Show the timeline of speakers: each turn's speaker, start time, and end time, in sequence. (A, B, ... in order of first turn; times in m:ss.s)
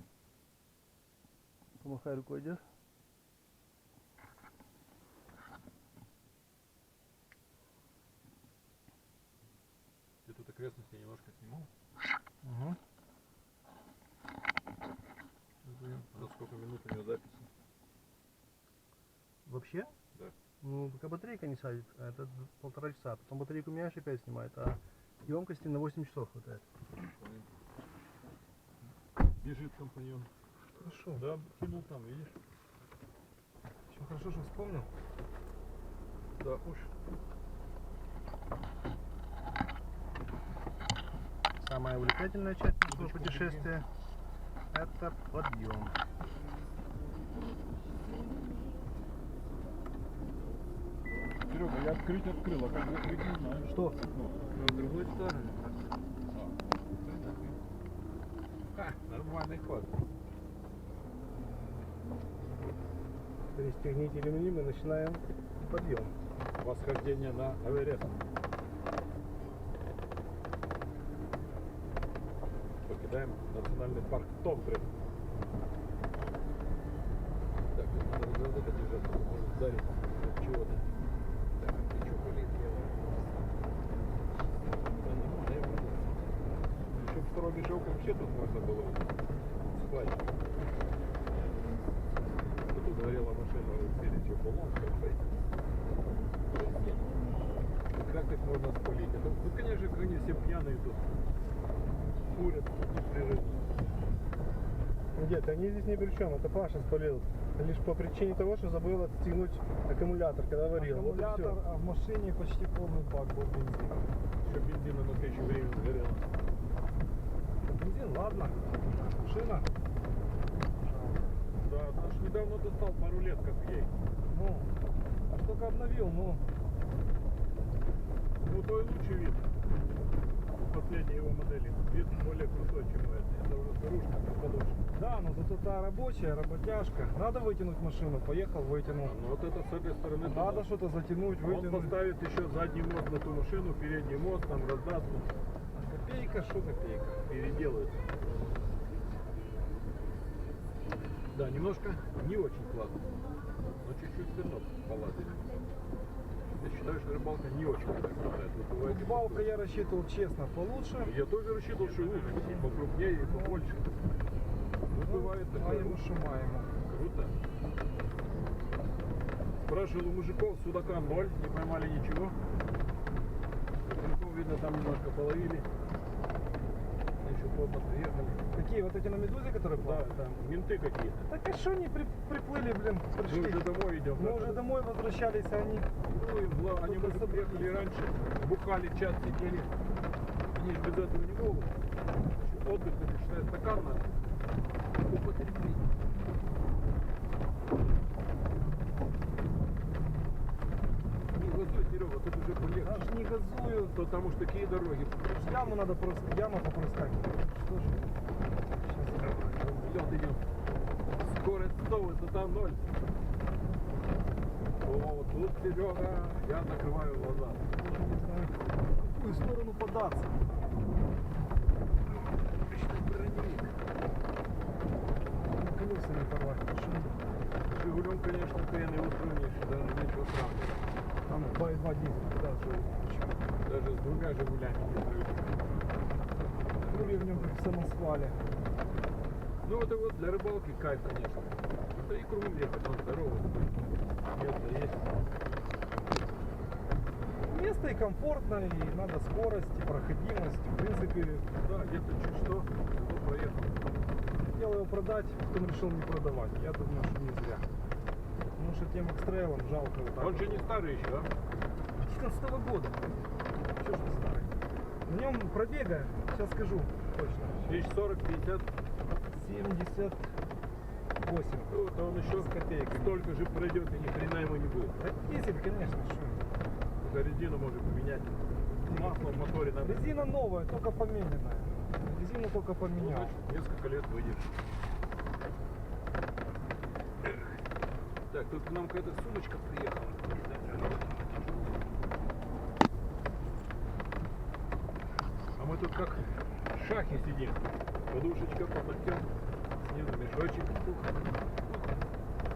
0:01.8-0:02.6 A
0:10.2-0:11.7 B
0:12.4-0:12.8 A
0:15.7-0:17.5 B
0:19.5-0:19.9 A
0:20.6-0:26.6 A
0:27.0-0:27.5 B
0:29.2-0:30.3 B
0:30.8-0:31.2 C
0:31.2-0:32.3 B
0:33.9-0:34.9 C
0:36.4-0:36.9 B
0:41.6-0:43.9 A
0:42.8-0:43.7 B
0:44.7-0:46.0 A
0:51.5-0:55.7 B
0:53.7-0:54.0 A
0:56.3-0:57.6 B
0:58.7-1:00.0 B
1:03.6-1:06.2 A
1:06.6-1:08.2 B
1:12.8-1:14.9 B
1:17.7-1:20.9 B
1:21.6-1:23.2 B
1:25.0-1:26.3 B
1:26.9-1:29.1 B
1:29.7-1:30.2 B
1:32.7-1:35.3 B
1:36.5-1:37.1 B
1:37.9-1:41.1 B
1:42.3-1:43.7 B
1:45.1-1:51.6 A
1:50.7-1:54.1 C
1:54.4-1:56.3 B
1:57.6-1:59.7 C
2:00.8-2:01.4 C
2:01.6-2:03.9 B
2:04.3-2:04.7 C
2:05.3-2:06.5 C
2:08.4-2:09.5 B
2:10.7-2:14.8 B
2:14.9-2:19.2 C
2:19.0-2:20.7 B
2:20.2-2:22.0 C
2:21.4-2:25.3 B
2:25.7-2:27.2 C
2:27.3-2:28.0 B
2:31.3-2:33.0 B
2:33.8-2:35.4 B
2:36.6-2:39.5 B
2:38.8-2:41.1 C
2:41.0-2:43.9 B
2:43.1-2:43.6 C
2:44.8-2:46.0 B
2:45.0-2:46.7 C
2:46.9-2:47.4 B
2:49.6-2:52.4 B
2:53.8-2:55.7 B
2:57.2-2:58.4 B
2:58.5-3:00.1 C
2:59.8-3:01.3 B
3:01.3-3:05.9 C
3:03.2-3:04.6 B
3:06.0-3:09.7 B
3:06.8-3:07.9 C
3:10.5-3:11.7 B
3:12.4-3:14.3 B
3:15.0-3:15.9 B
3:21.3-3:23.1 B
3:22.7-3:24.0 C
3:23.9-3:25.8 B
3:25.3-3:28.2 C
3:28.7-3:29.6 C
3:29.2-3:30.5 B
3:31.2-3:32.9 B
3:34.8-3:37.6 B
3:37.5-3:40.4 C
3:42.5-3:43.8 B
3:45.5-3:47.2 C
3:47.7-3:50.9 B
3:51.3-3:53.4 C
3:53.6-3:55.8 B
3:56.8-3:57.6 B
3:56.9-3:58.4 C
3:59.6-4:05.1 B
4:07.4-4:11.5 C
4:11.6-4:13.8 B
4:14.5-4:17.7 C
4:18.6-4:20.7 C
4:20.2-4:21.3 B
4:22.0-4:23.1 C
4:23.8-4:27.8 C
4:27.6-4:28.7 B
4:29.3-4:30.3 C
4:31.2-4:31.8 C
4:31.7-4:35.0 B
4:32.3-4:33.2 C
4:35.0-4:36.5 C
4:37.0-4:40.3 B
4:38.8-4:43.4 C
4:43.0-4:44.5 B
4:48.3-4:51.9 B
4:55.6-5:02.0 B